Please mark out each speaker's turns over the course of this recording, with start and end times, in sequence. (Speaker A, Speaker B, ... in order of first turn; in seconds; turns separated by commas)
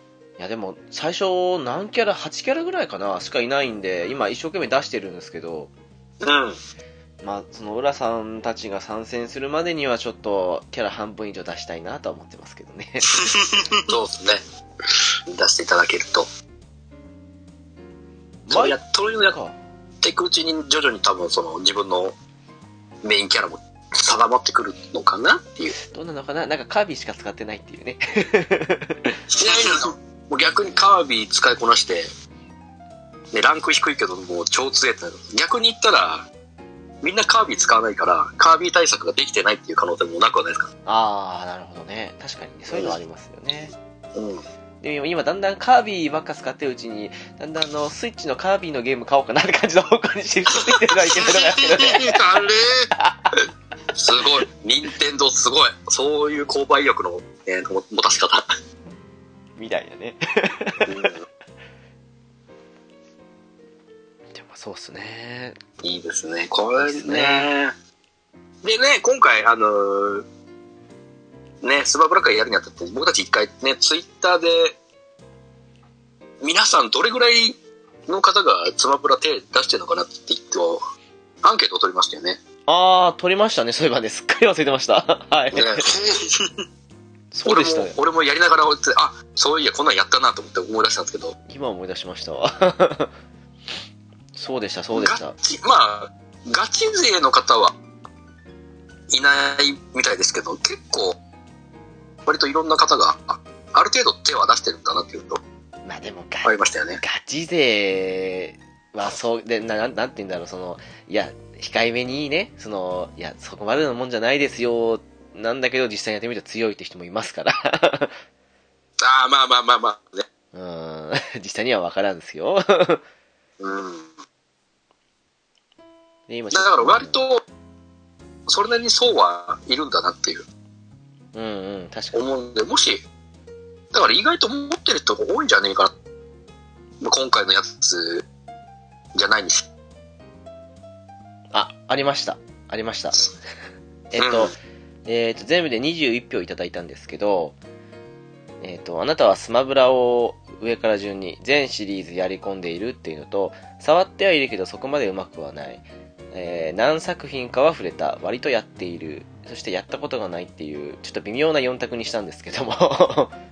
Speaker A: 0.4-5.7, Speaker B: 6.2-6.6, Speaker A: 7.2-13.7, Speaker C: 13.3-13.8, Speaker B: 13.8-14.4, Speaker B: 15.3-16.3, Speaker B: 18.5-19.4, Speaker A: 18.5-19.6, Speaker B: 20.0-22.1, Speaker B: 23.0-25.7, Speaker A: 25.8-29.2, Speaker B: 29.4-32.1, Speaker B: 33.3-36.3, Speaker B: 37.0-40.7, Speaker A: 40.9-43.7, Speaker B: 44.1-44.4, Speaker A: 44.8-52.2, Speaker B: 50.5-51.4, Speaker C: 51.7-52.9, Speaker A: 53.0-53.3, Speaker B: 53.9-58.5, Speaker A: 59.6-61.1, Speaker B: 60.9-61.2, Speaker A: 64.3-65.6, Speaker B: 65.8-67.7, Speaker A: 66.8-67.5, Speaker B: 68.6-70.2, Speaker B: 71.6-74.8, Speaker B: 76.4-77.5, Speaker B: 78.1-80.8, Speaker B: 81.4-82.4, Speaker A: 82.7-85.8, Speaker B: 85.5-85.9, Speaker C: 85.8-86.2, Speaker A: 87.3-88.0, Speaker B: 87.4-91.3, Speaker A: 91.5-93.1, Speaker A: 94.3-95.3, Speaker B: 94.9-97.7, Speaker B: 99.1-101.2, Speaker B: 102.2-105.4, Speaker A: 105.8-118.1, Speaker B: 106.4-107.0, Speaker B: 119.0-120.2, Speaker A: 120.5-123.0, Speaker B: 123.6-124.1, Speaker A: 126.3-127.2, Speaker B: 126.5-127.4, Speaker B: 128.5-130.4, Speaker A: 131.3-132.2, Speaker B: 132.1-133.0, Speaker B: 133.9-135.9, Speaker B: 137.0-138.2, Speaker B: 139.1-139.7, Speaker A: 141.5-143.2, Speaker A: 144.1-144.5, Speaker B: 144.2-144.5, Speaker A: 145.1-147.6, Speaker A: 148.6-163.3